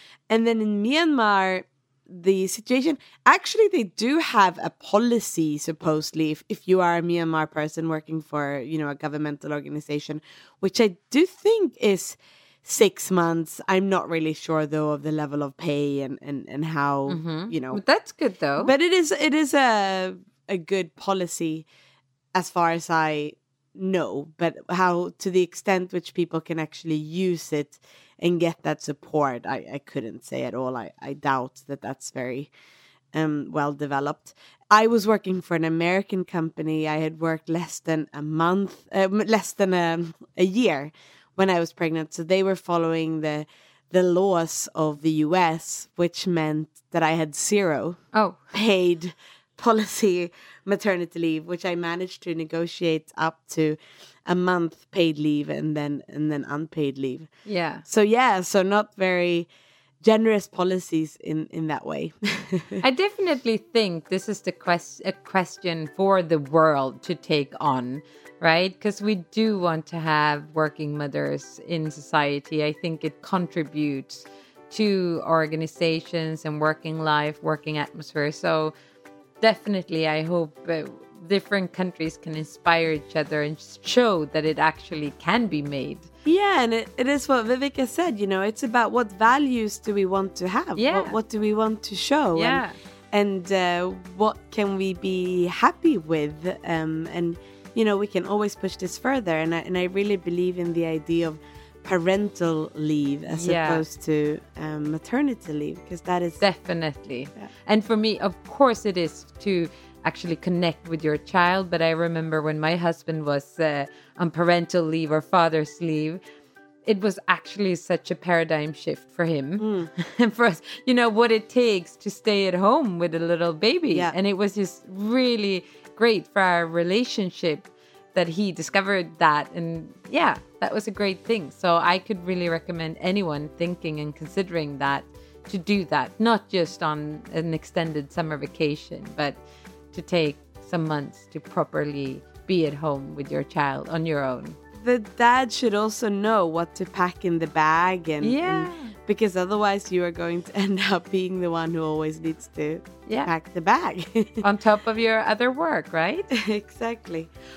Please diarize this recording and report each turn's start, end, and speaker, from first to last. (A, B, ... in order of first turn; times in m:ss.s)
0:00.3-0:17.8 A
0:17.1-0:18.7 B
0:18.6-0:21.6 A
0:22.3-0:32.5 A
0:33.1-0:48.0 A
0:48.1-0:48.4 B
0:48.5-0:57.3 A
0:57.4-0:57.8 B
0:57.8-0:59.5 A
1:00.0-1:02.8 A
1:02.8-1:18.7 B
1:19.4-1:26.1 B
1:26.2-1:46.4 A
1:30.8-1:31.2 B
1:32.3-1:32.7 B
1:43.3-1:43.8 B
1:46.4-1:56.2 B
1:56.8-2:19.4 B
1:59.6-1:59.9 A
2:19.9-2:24.6 B
2:24.8-2:34.4 A
2:28.2-2:28.9 B
2:34.4-2:36.3 B
2:36.3-2:37.3 A